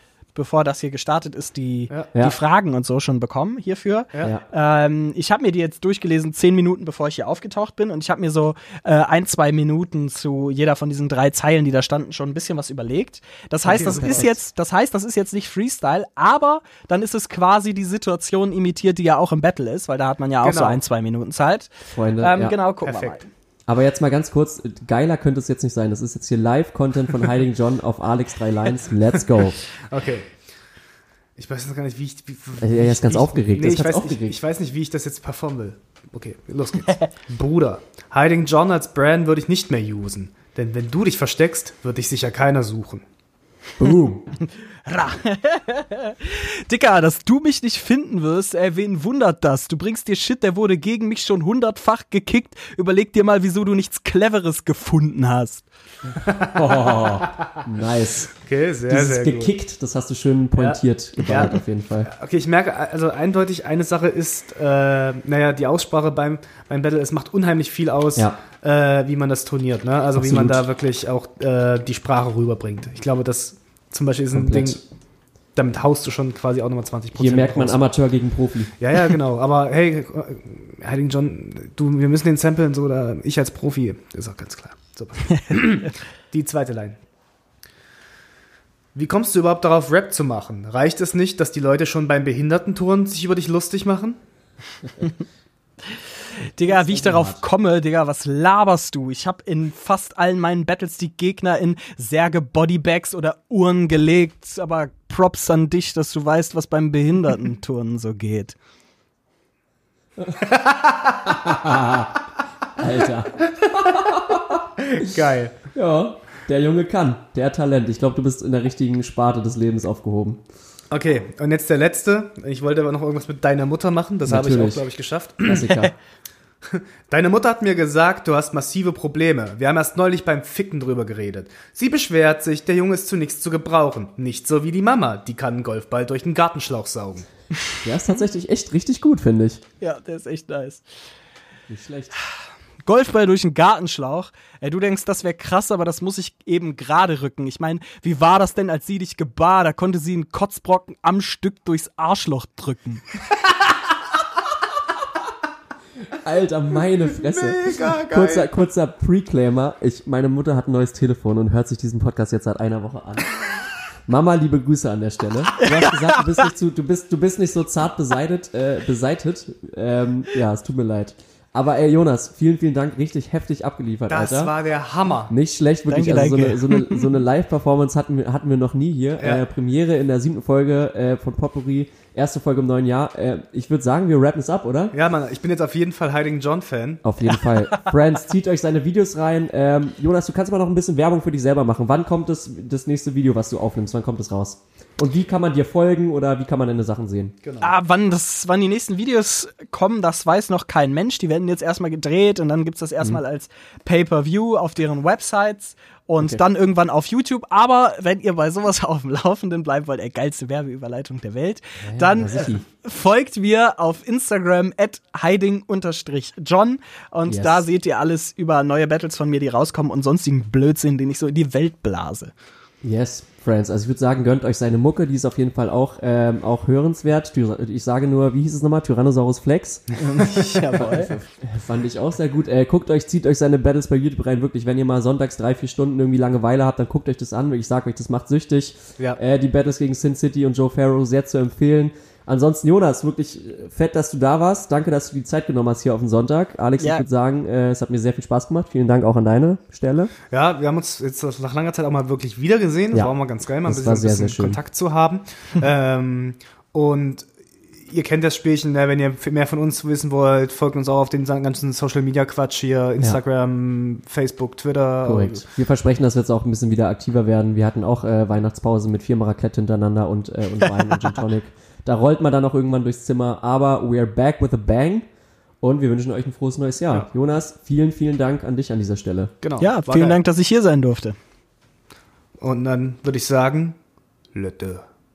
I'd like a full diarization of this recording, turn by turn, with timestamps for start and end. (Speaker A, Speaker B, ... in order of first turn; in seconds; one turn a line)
Speaker A: 0.3-23.2
Speaker B: 13.7-14.3
Speaker C: 13.7-14.4
Speaker B: 20.4-20.8
Speaker C: 21.9-22.6
Speaker B: 22.8-23.2
Speaker C: 23.7-29.6
Speaker B: 29.4-30.4
Speaker B: 31.4-43.0
Speaker C: 32.6-34.4
Speaker C: 43.8-44.3
Speaker A: 44.8-55.6
Speaker B: 56.2-57.6
Speaker C: 56.5-58.3
Speaker B: 58.4-59.5
Speaker C: 58.9-62.1
Speaker B: 60.6-74.8
Speaker C: 70.2-70.6
Speaker C: 74.3-74.8
Speaker B: 75.5-77.8
Speaker C: 77.1-78.7
Speaker B: 78.8-87.0
Speaker B: 88.9-94.2
Speaker A: 96.6-108.5
Speaker B: 110.4-111.3
Speaker C: 111.2-112.2
Speaker C: 112.8-115.1
Speaker B: 113.6-114.1
Speaker B: 114.8-115.6
Speaker C: 115.7-120.4
Speaker B: 120.9-125.8
Speaker C: 124.2-124.8
Speaker C: 125.4-125.9
Speaker B: 126.7-137.3
Speaker C: 137.8-139.6
Speaker A: 139.8-140.8
Speaker C: 141.7-142.1
Speaker A: 142.8-153.0
Speaker C: 156.1-163.4
Speaker B: 157.2-158.5
Speaker C: 164.0-174.5
Speaker A: 165.6-166.2
Speaker B: 174.1-175.3
Speaker C: 175.3-184.9
Speaker A: 175.9-177.1
Speaker B: 179.2-179.4
Speaker B: 184.9-187.0
Speaker C: 187.0-197.3
Speaker B: 197.4-197.7
Speaker A: 197.6-222.3
Speaker C: 211.8-212.6
Speaker C: 217.2-217.6
Speaker C: 222.8-230.0
Speaker A: 230.0-231.1
Speaker C: 230.7-250.1
Speaker A: 246.8-247.0
Speaker B: 250.3-257.3
Speaker C: 253.7-254.6
Speaker B: 257.8-265.4
Speaker C: 265.0-275.1
Speaker C: 275.6-279.3
Speaker B: 279.4-280.2
Speaker A: 279.6-281.2
Speaker B: 282.4-283.8
Speaker B: 284.3-284.9